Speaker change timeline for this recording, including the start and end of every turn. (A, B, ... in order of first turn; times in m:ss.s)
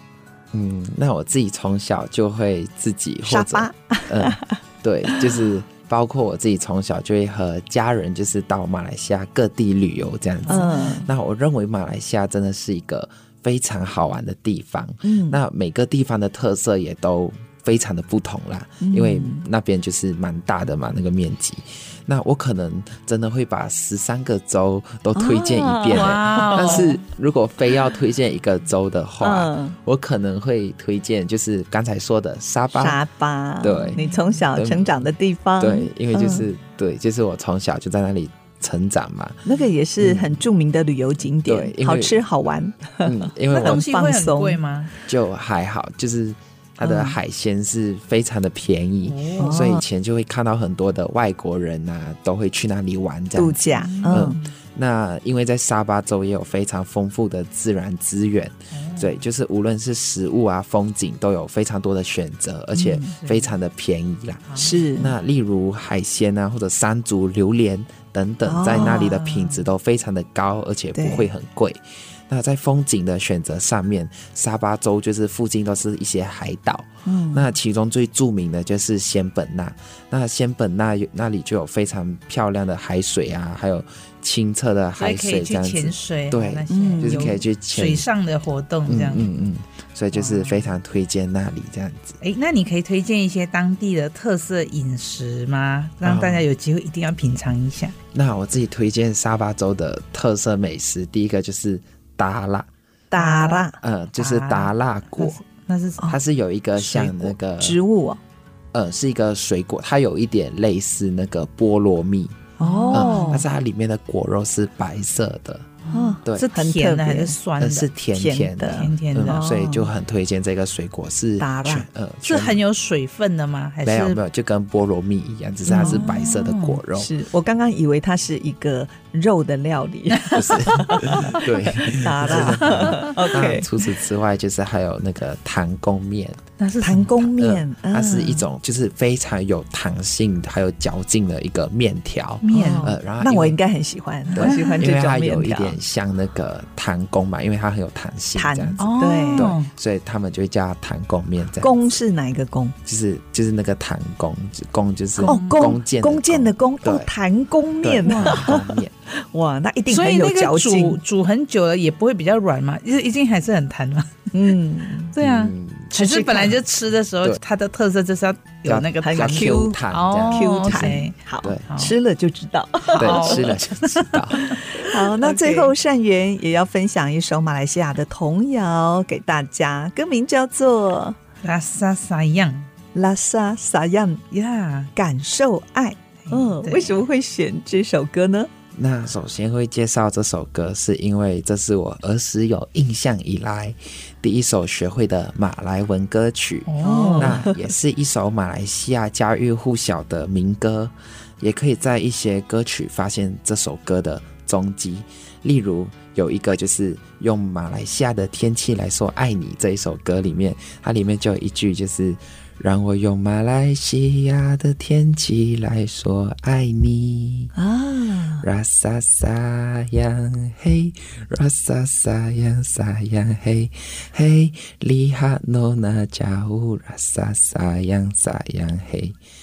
0:00.5-0:33.0 A
0:03.3-0:04.6 B
0:10.5-0:11.1 B
0:15.0-0:15.4 B
0:18.8-0:19.4 B
0:25.2-0:26.8 B
0:25.9-0:27.0 C
0:29.2-0:29.8 B
0:32.7-0:36.4 B
0:33.6-0:34.0 A
0:34.0-0:34.2 C
0:34.5-0:34.9 A
0:35.6-0:39.4 A
0:39.4-0:44.6 B
0:40.0-0:40.4 A
0:41.4-0:42.2 A
0:43.0-0:43.8 A
0:43.5-0:44.9 C
0:45.1-1:28.1 A
0:46.8-0:47.2 B
0:49.0-0:49.6 C
0:49.4-0:49.8 B
0:53.4-0:54.4 B
0:53.8-0:54.4 C
0:58.7-0:59.2 C
1:02.7-1:03.1 B
1:03.2-1:03.5 C
1:04.5-1:04.8 C
1:04.6-1:05.1 B
1:08.5-1:09.2 B
1:08.7-1:09.6 C
1:11.0-1:11.3 B
1:17.0-1:17.4 B
1:25.0-1:29.3 C
1:26.7-1:27.4 B
1:28.9-1:32.2 A
1:30.1-1:30.7 C
1:32.2-1:38.0 C
1:36.0-1:36.5 A
1:38.1-1:42.7 A
1:43.1-1:43.8 B
1:43.2-1:46.1 C
1:43.8-1:45.4 A
1:46.1-1:47.8 A
1:46.8-1:48.2 B
1:48.7-1:52.4 A
1:52.6-1:53.4 B
1:52.6-1:53.4 C
1:52.9-1:55.7 A
1:55.8-1:57.9 C
1:55.9-1:57.4 B
1:57.6-2:02.6 A
1:58.1-1:59.9 B
1:58.6-1:59.4 C
2:01.4-2:01.9 B
2:02.2-2:04.2 C
2:03.8-2:07.1 A
2:05.7-2:06.1 B
2:05.7-2:06.8 C
2:07.0-2:13.7 B
2:10.3-2:16.4 A
2:12.7-2:13.2 C
2:16.6-2:17.1 C
2:16.8-2:18.5 B
2:17.1-2:23.6 A
2:22.4-2:22.9 C
2:22.5-2:25.8 B
2:24.3-2:32.0 A
2:24.4-2:24.8 C
2:28.4-2:29.5 B
2:28.8-2:29.7 C
2:31.6-2:32.8 B
2:32.8-2:37.1 A
2:35.2-2:41.0 B
2:35.3-2:35.7 C
2:37.8-2:38.9 A
2:39.9-2:44.1 C
2:44.3-2:45.1 B
2:45.2-2:51.2 C
2:45.2-2:45.9 A
2:45.9-2:46.6 B
2:48.6-2:51.7 A
2:49.0-2:49.8 B
2:50.3-2:53.4 B
2:51.7-2:52.0 C
2:52.9-2:55.7 C
2:53.0-2:54.6 A
2:54.5-3:01.2 B
3:01.4-3:02.7 C
3:03.0-3:04.2 B
3:04.3-3:04.9 C
3:05.0-3:08.5 B
3:06.3-3:07.0 C
3:08.8-3:37.5 A
3:16.7-3:17.5 C
3:16.8-3:17.5 B
3:37.6-3:38.4 B
3:38.4-3:49.2 A